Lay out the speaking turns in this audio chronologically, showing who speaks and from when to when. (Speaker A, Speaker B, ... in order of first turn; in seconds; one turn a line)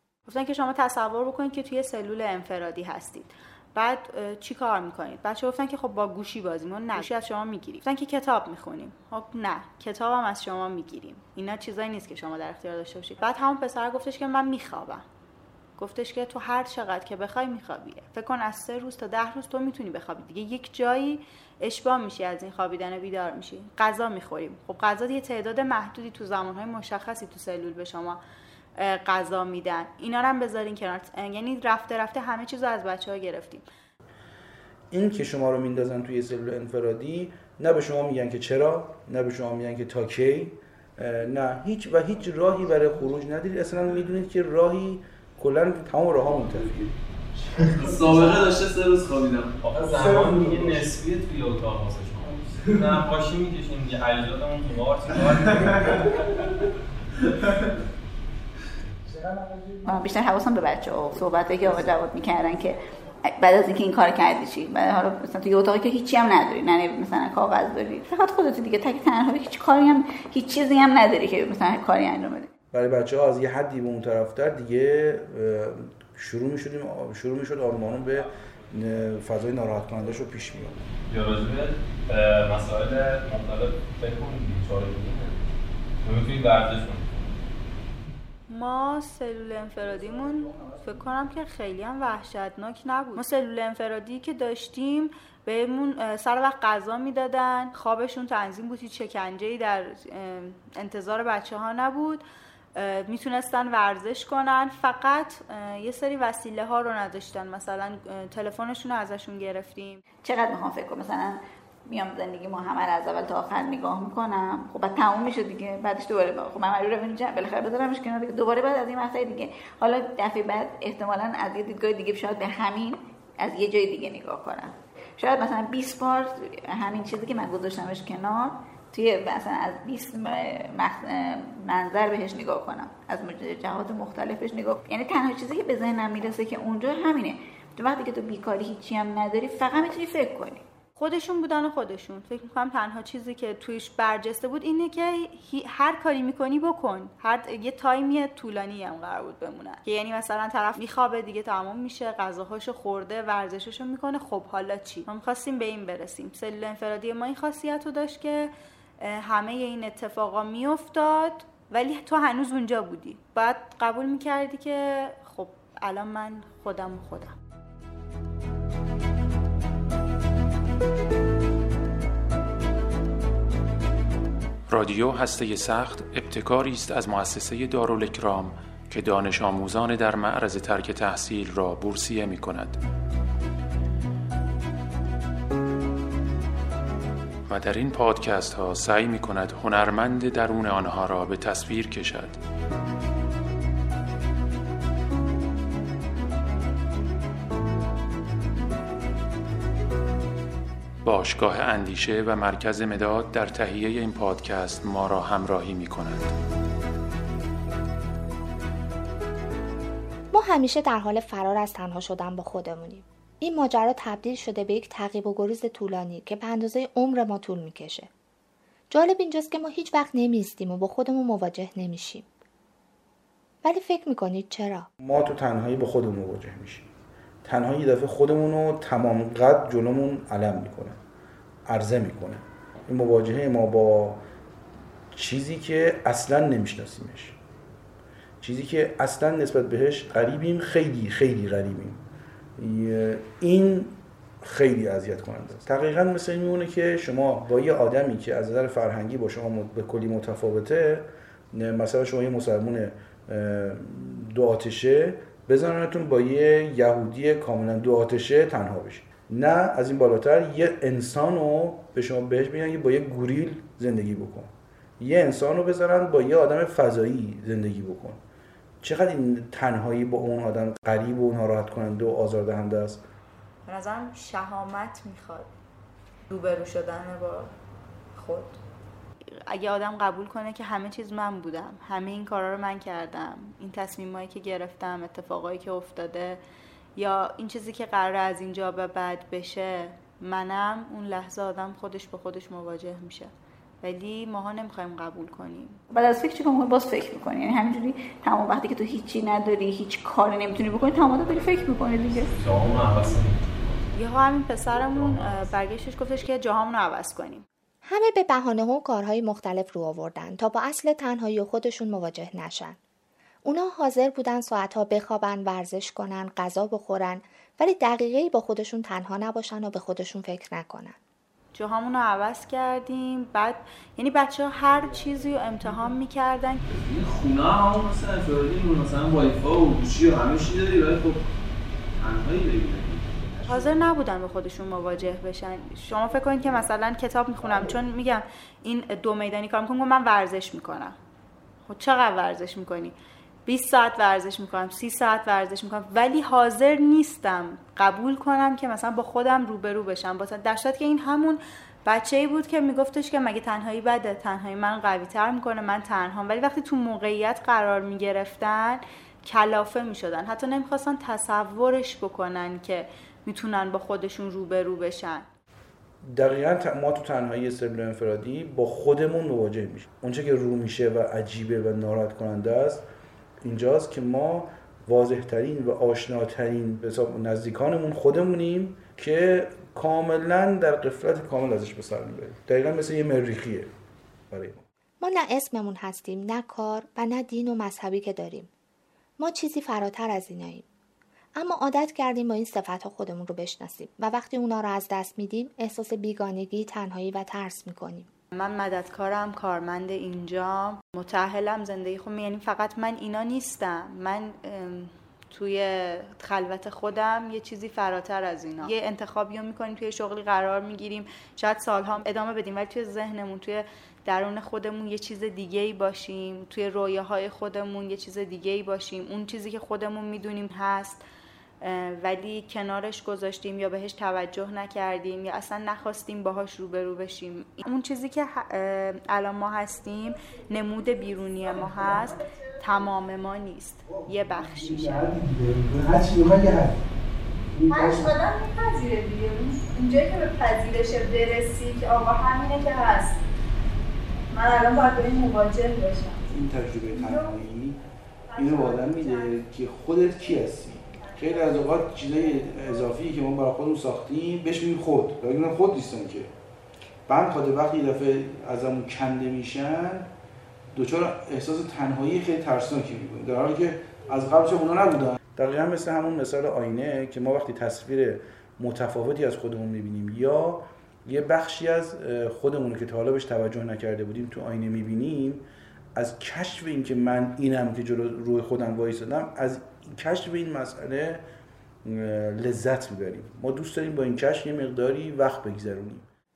Speaker A: 0.3-15.0
Speaker A: 15.8-28.2
Speaker A: 28.8-33.6
Speaker B: 34.9-46.9
Speaker C: 42.0-43.3
Speaker D: 47.5-51.0
Speaker C: 47.8-48.6
Speaker E: 49.6-56.2
Speaker C: 50.0-50.8
Speaker C: 52.2-52.6
Speaker D: 52.6-53.0
Speaker D: 55.5-56.0
Speaker D: 57.4-57.6
Speaker C: 59.0-60.0
Speaker F: 59.8-62.8
Speaker F: 63.3-72.5
Speaker B: 72.7-80.8
Speaker E: 78.4-79.1
Speaker E: 81.1-85.5
Speaker E: 86.0-87.4
Speaker A: 88.5-102.2
Speaker C: 89.8-91.0
Speaker A: 102.8-110.0
Speaker F: 110.2-140.6
Speaker A: 141.0-167.3
Speaker G: 174.7-182.8
Speaker G: 187.5-192.4
Speaker G: 201.0-206.3
Speaker H: 210.3-218.1
Speaker H: 218.9-222.3
Speaker H: 223.6-224.9
Speaker B: 225.0-226.9
Speaker B: 227.4-231.0
Speaker B: 231.7-234.2
Speaker B: 235.1-237.4
Speaker B: 238.4-242.0
Speaker B: 242.6-268.2
Speaker B: 268.8-273.0
Speaker A: 273.7-275.5
Speaker A: 276.3-277.5
Speaker A: 278.1-278.6
Speaker A: 279.5-286.4
Speaker A: 287.0-295.8
Speaker F: 295.9-302.3
Speaker D: 300.8-303.2
Speaker E: 302.2-303.9
Speaker A: 303.9-307.4
Speaker E: 304.9-305.5
Speaker H: 307.8-312.8
Speaker H: 313.4-321.0
Speaker A: 321.5-326.6
Speaker C: 324.7-325.5
Speaker D: 326.6-331.2
Speaker D: 332.0-333.7
Speaker A: 333.5-340.9
Speaker A: 341.7-365.3
Speaker B: 366.1-372.8
Speaker B: 373.4-383.7
Speaker B: 384.3-384.6
Speaker H: 385.0-388.5
Speaker H: 389.2-390.6
Speaker H: 391.4-398.1
Speaker A: 398.3-421.0
Speaker A: 421.6-435.1
Speaker C: 431.4-432.2
Speaker C: 433.9-436.8
Speaker C: 437.6-438.1
Speaker A: 437.7-443.2
Speaker A: 444.3-446.2
Speaker B: 446.3-447.8
Speaker A: 446.9-447.3
Speaker A: 448.3-449.3
Speaker B: 448.4-456.3
Speaker B: 457.1-460.1
Speaker B: 460.7-481.2
Speaker B: 481.9-486.1